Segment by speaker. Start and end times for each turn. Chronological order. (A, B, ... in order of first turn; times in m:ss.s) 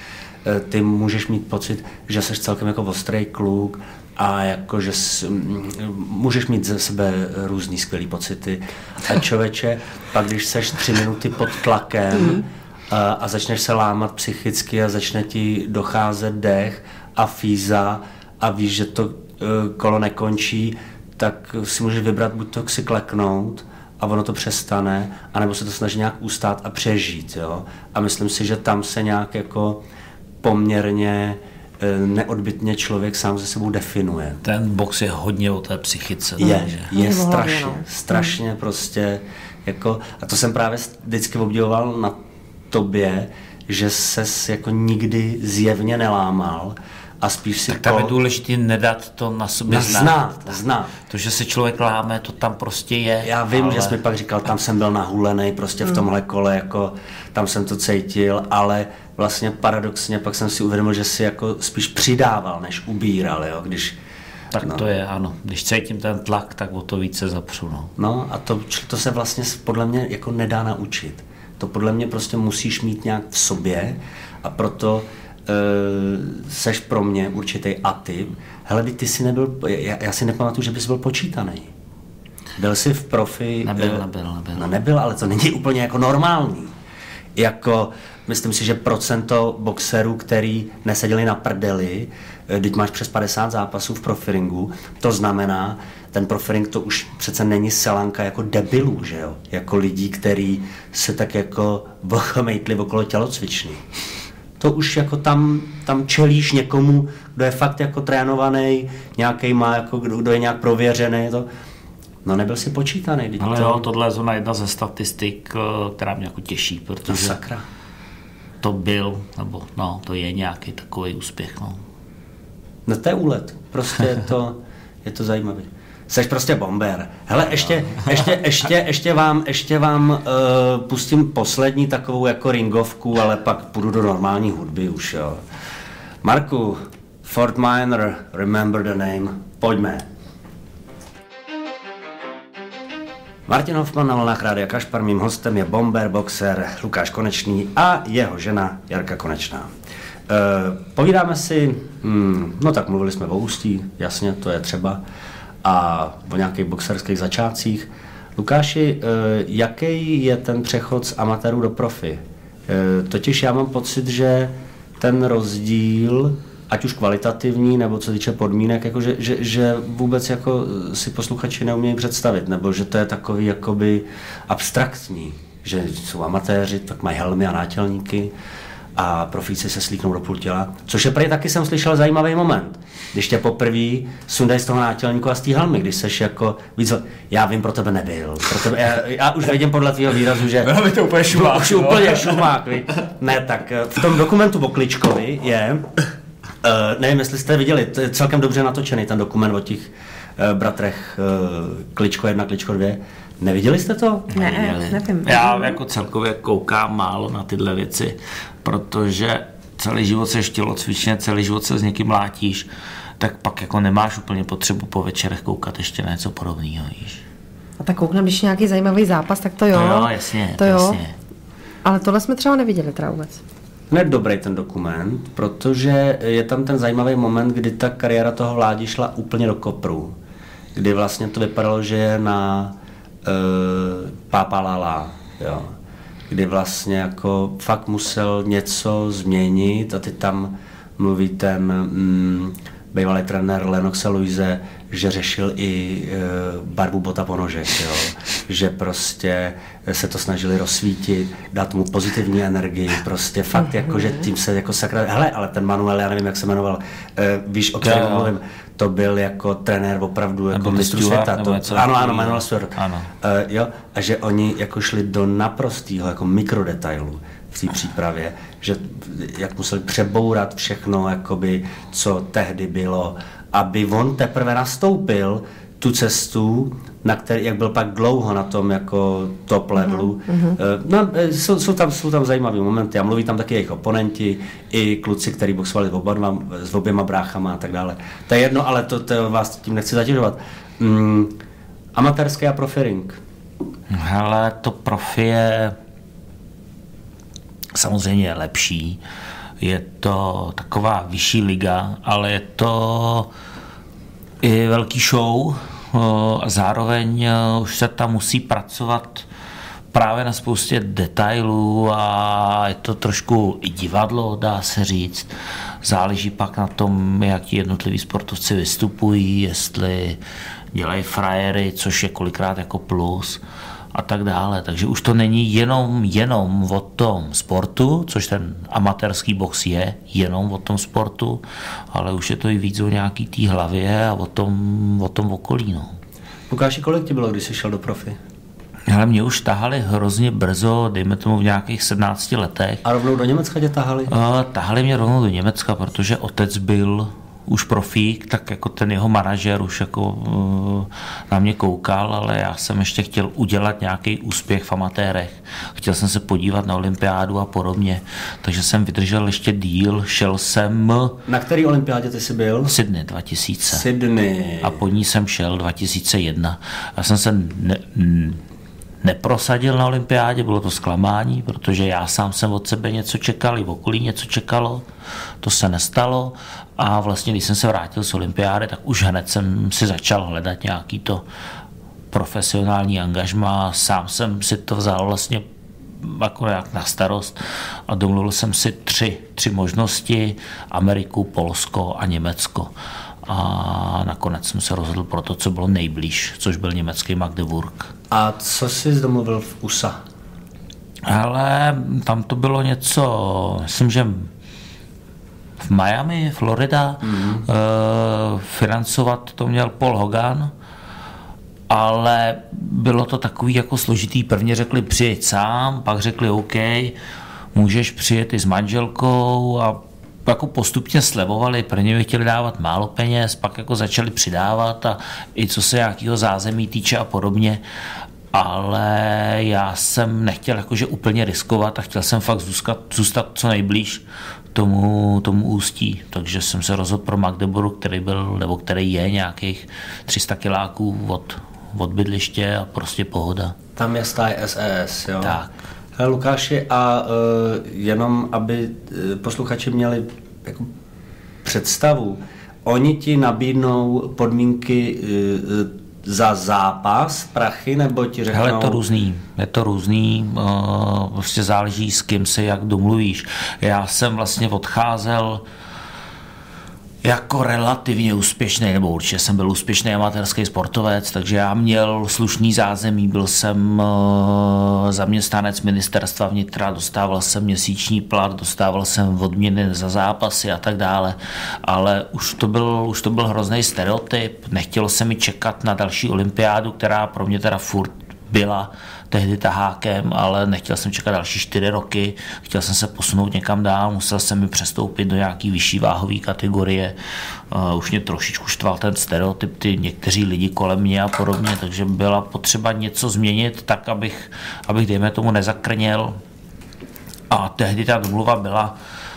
0:00.4-0:29.8 A
0:30.4-0:34.4 A
0:34.4-0:36.9 B
0:36.4-0:42.2 A
0:36.4-0:38.3 C
0:42.7-0:48.1 A
0:47.7-0:50.4 B
0:49.7-0:50.9 A
0:51.1-0:54.0 B
0:53.2-1:04.0 A
1:04.5-1:07.9 B
1:04.6-1:04.8 A
1:08.0-1:21.7 A
1:22.6-1:24.0 A
1:23.6-1:24.7 B
1:24.5-1:26.7 A
1:27.4-1:43.8 A
1:44.6-1:51.5 A
1:52.2-1:53.8 A
1:53.4-1:57.4 B
1:57.0-1:57.6 A
1:58.6-2:01.8 B
2:02.8-2:15.4 A
2:16.2-2:20.1 A
2:23.5-2:29.7 A
2:30.3-2:35.0 A
2:35.6-2:58.3 A
2:58.9-3:15.9 A
3:10.6-3:12.5 B
3:16.6-3:24.3 A
3:24.3-3:32.7 B
3:24.3-3:25.8 C
3:33.2-3:37.2 B
3:37.8-3:41.0 C
3:39.7-3:41.1 B
3:41.8-3:43.4 C
3:43.9-3:50.2 A
3:50.7-3:55.7 A
3:56.3-4:51.3 A
4:17.8-4:18.3 B
4:20.5-4:23.1 B
4:51.9-4:53.2 A
4:53.9-4:55.8 B
4:57.7-4:59.0 B
4:59.6-5:03.3 B
5:04.4-5:09.2 B
5:09.9-5:15.3 B
5:15.8-5:20.2 B
5:20.7-5:23.4 B
5:23.9-5:35.9 B
5:36.5-5:38.2 A
5:38.9-5:42.8 B
5:42.8-5:44.1 A
5:44.1-6:01.2 B
6:01.3-6:02.7 A
6:02.7-6:03.8 B
6:03.7-6:04.8 A
6:04.6-6:08.4 B
6:09.0-6:14.8 B
6:15.4-6:21.2 B
6:22.1-6:25.4 B
6:26.0-6:32.7 B
6:33.2-6:37.9 B
6:38.1-6:40.0 A
6:41.0-6:44.3 B
6:45.6-6:50.5 B
6:47.0-6:47.4 A
6:51.7-6:57.0 B
6:57.5-7:07.6 B
7:08.3-7:14.0 B
7:14.5-7:23.6 B
7:23.8-7:25.4 A
7:25.2-7:25.5 B
7:26.0-7:30.7 A
7:31.4-7:38.8 A
7:38.3-7:45.4 B
7:47.0-8:16.9 B
8:17.5-8:26.2 B
8:27.3-8:28.8 B